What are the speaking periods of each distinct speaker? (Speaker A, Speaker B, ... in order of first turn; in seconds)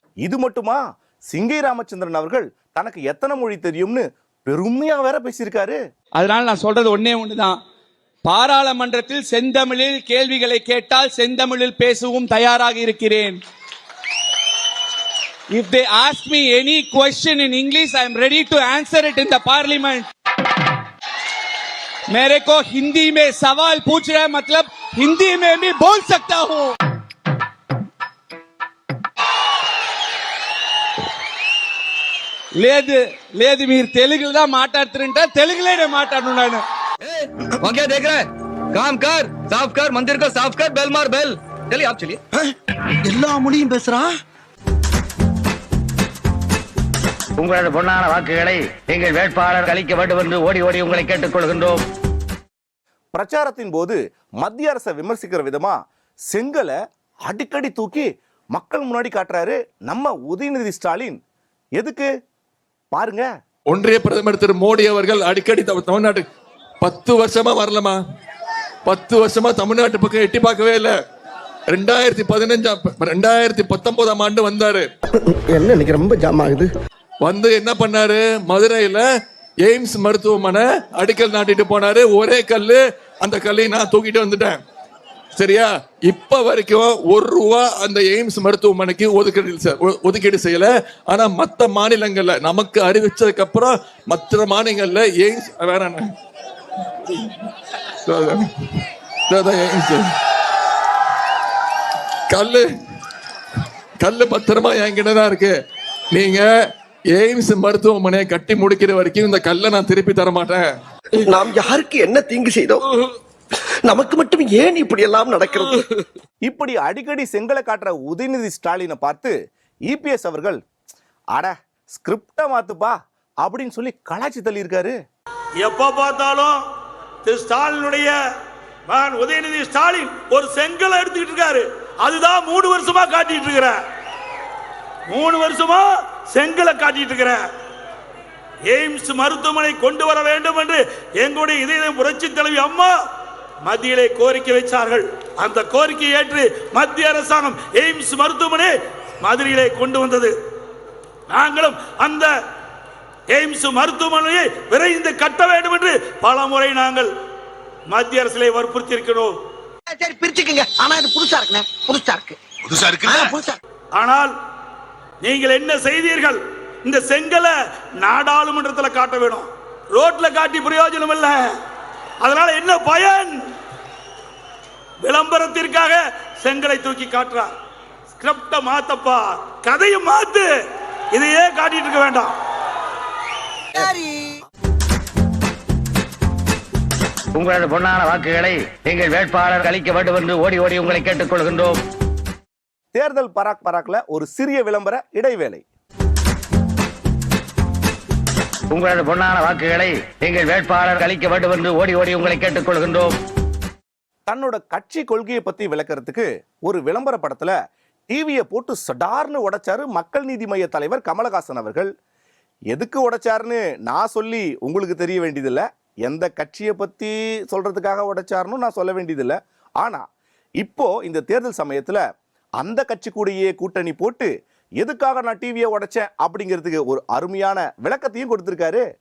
Speaker A: 0.2-5.8, 53.1-55.8, 56.3-56.7, 57.2-61.2, 61.8-62.1, 62.9-63.2, 116.4-119.3, 119.9-120.6, 121.3-124.9, 192.9-195.6, 204.3-207.5, 208.1-211.9, 212.7-220.0, 220.6-222.0, 222.6-228.8
Speaker B: 6.2-7.5, 8.2-13.4, 15.5-20.1, 22.1-26.7, 32.6-36.6
Speaker C: 37.6-38.1, 38.8-42.1
Speaker D: 43.1-44.1, 75.5-76.7, 111.2-112.8, 113.8-115.8, 159.9-163.5, 183.8-184.1
Speaker E: 47.4-51.8, 187.3-191.8, 198.7-203.1
Speaker F: 63.7-66.2, 66.8-68.0, 68.8-70.9, 71.7-74.9, 77.2-79.0, 79.6-84.6, 85.3-96.1, 98.0-98.5, 99.3-100.0, 102.3-102.7, 104.0-105.5, 106.1-106.5, 107.1-110.7
Speaker G: 125.6-126.6, 127.2-128.1, 128.9-133.8, 135.1-137.4, 138.7-142.9, 143.6-150.3, 151.3-152.3, 153.3-157.1, 157.9-159.3, 163.9-164.3, 165.2-171.4, 172.2-173.3, 175.0-177.5, 178.2-180.5, 181.1-182.3